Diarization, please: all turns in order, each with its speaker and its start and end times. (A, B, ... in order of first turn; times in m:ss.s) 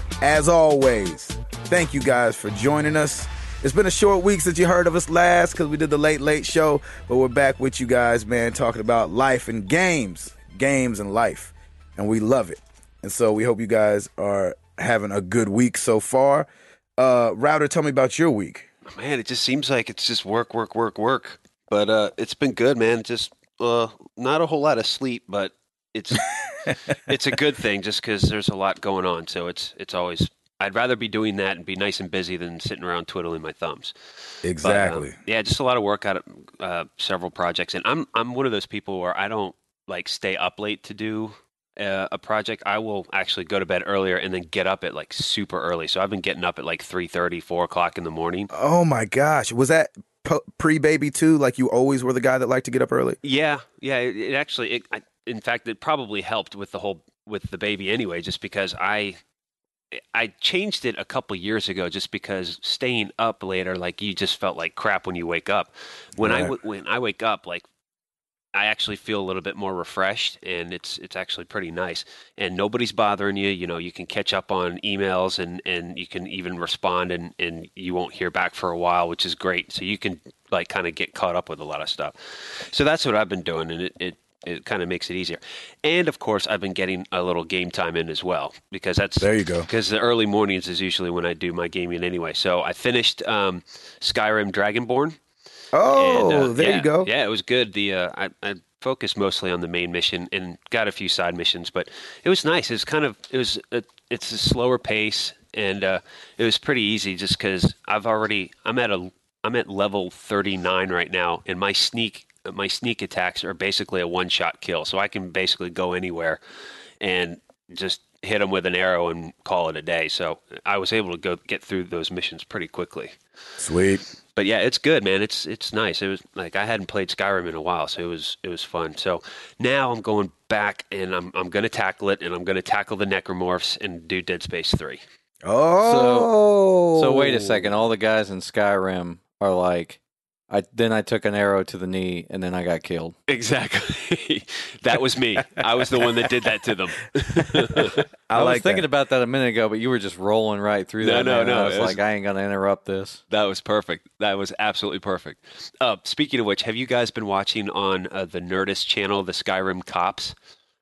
0:00.2-0:16.5 A
0:17.0-0:18.7 A
0:18.9-0:26.3 B
0:26.8-0:33.9 B
0:34.4-0:35.2 A
0:34.6-0:48.5 B
0:48.5-0:53.2 A
0:53.2-0:59.2 B
1:00.1-1:07.6 B
1:06.2-1:06.5 A
1:08.5-1:35.2 B
1:29.2-1:29.7 A
1:35.7-1:37.1 A
1:35.9-1:56.4 B
1:57.0-2:03.2 B
2:03.6-2:04.0 A
2:04.4-2:15.0 B
2:15.4-2:17.7 A
2:15.8-2:16.3 C
2:16.9-2:23.1 C
2:23.3-2:28.0 B
2:27.4-2:28.8 A
2:28.3-2:33.2 C
2:31.0-2:32.0 B
2:33.3-2:40.3 B